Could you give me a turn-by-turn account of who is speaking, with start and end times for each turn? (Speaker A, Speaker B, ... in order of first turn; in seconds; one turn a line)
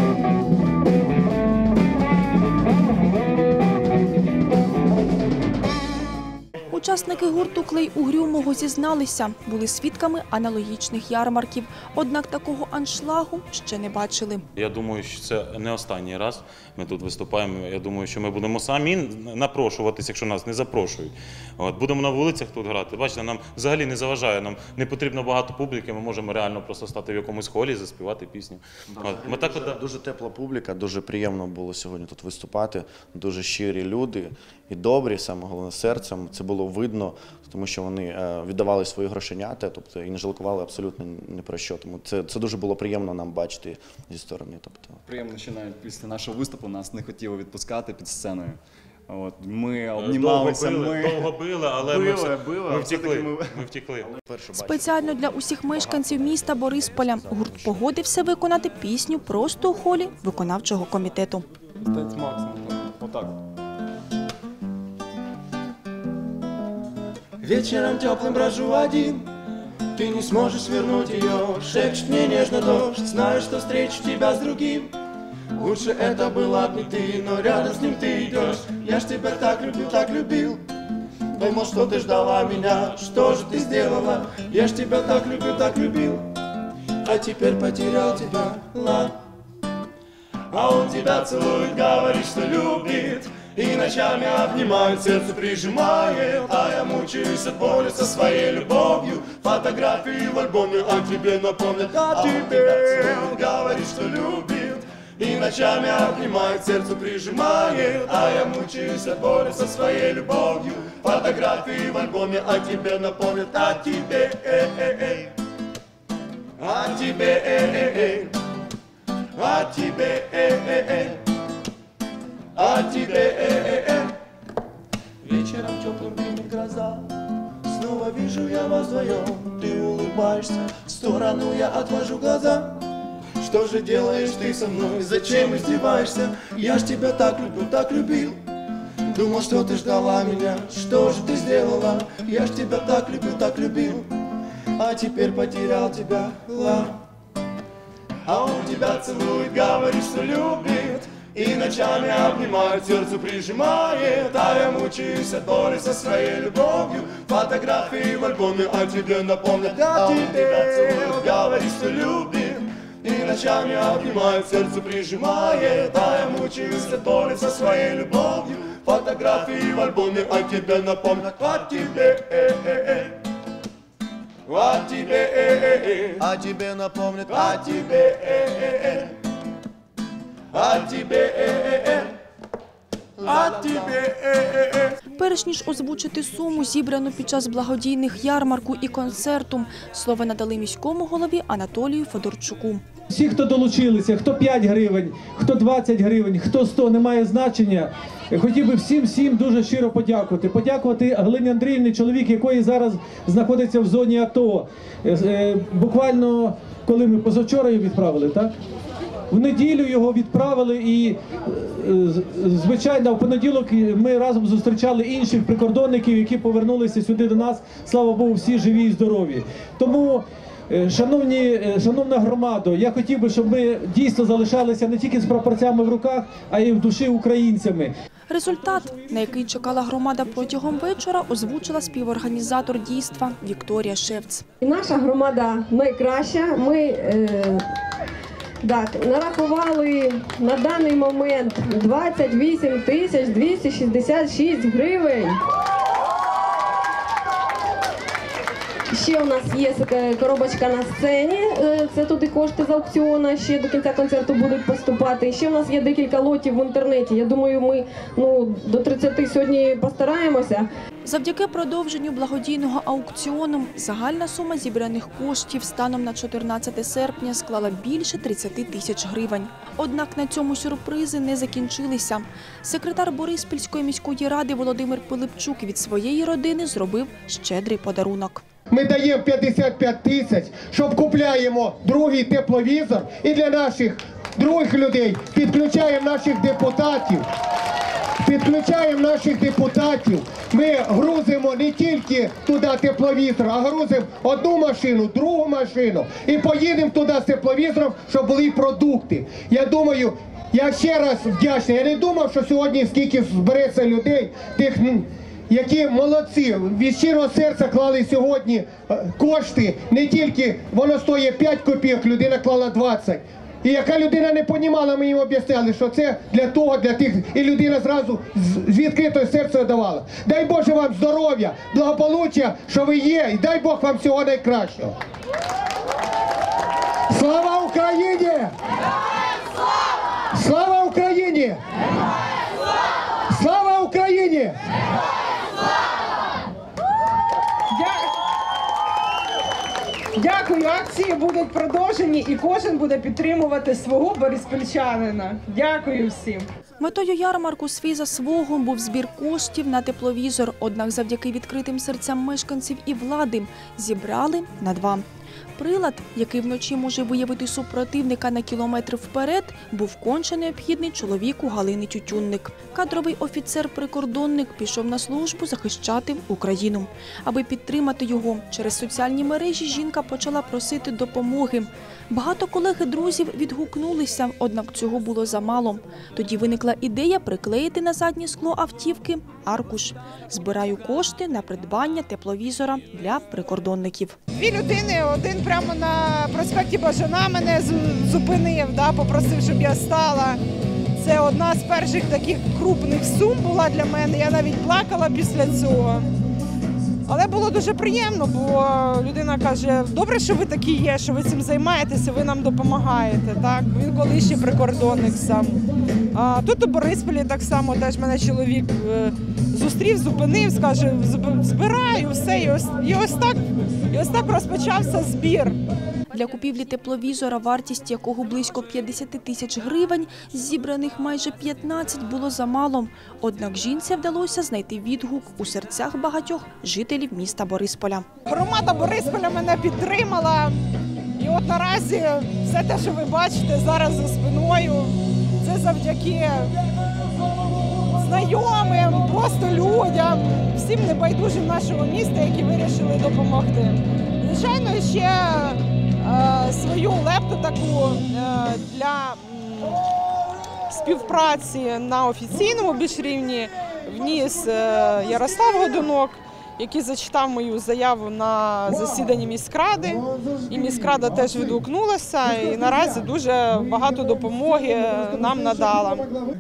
Speaker A: 6.7-14.5
Speaker B: 14.6-29.8
Speaker C: 28.9-45.0
Speaker D: 45.1-51.3
Speaker B: 50.0-54.1
Speaker D: 51.9-53.6
Speaker C: 54.3-55.2
Speaker A: 54.5-61.5
Speaker D: 62.0-63.3
Speaker E: 67.4-69.3
Speaker E: 70.0-74.9
Speaker E: 75.6-80.6
Speaker E: 81.3-86.3
Speaker E: 87.0-89.2
Speaker E: 90.5-115.3
Speaker E: 116.6-118.3
Speaker E: 119.4-121.2
Speaker E: 122.6-124.1
Speaker E: 125.2-127.1
Speaker E: 127.7-132.8
Speaker E: 133.4-138.4
Speaker E: 139.1-144.1
Speaker E: 144.8-147.0
Speaker E: 148.2-173.1
Speaker E: 174.5-179.1
Speaker C: 176.2-177.4
Speaker E: 180.5-182.1
Speaker E: 183.2-184.9
Speaker A: 185.2-192.8
Speaker F: 193.1-208.5
Speaker F: 209.3-227.9
Speaker A: 228.3-234.4
Speaker G: 234.6-237.6
Speaker G: 238.6-245.4
Speaker G: 248.9-260.7
Speaker A: 261.1-278.4
Speaker H: 278.7-287.2
Speaker H: 288.2-325.0
Speaker H: 327.1-328.5
Speaker H: 330.3-331.6
Speaker H: 333.3-334.6
Speaker I: 337.7-338.1
Speaker I: 340.2-346.5
Speaker A: 346.8-355.1
Speaker A: 355.6-384.2
Speaker I: 384.3-390.4
Speaker I: 391.0-396.1
Speaker I: 397.1-405.6
Speaker I: 406.1-413.4
Speaker I: 413.9-415.6
Speaker A: 416.1-428.1
Speaker I: 428.3-430.6
Speaker I: 431.2-436.6
Speaker I: 437.7-449.9
Speaker I: 450.7-466.1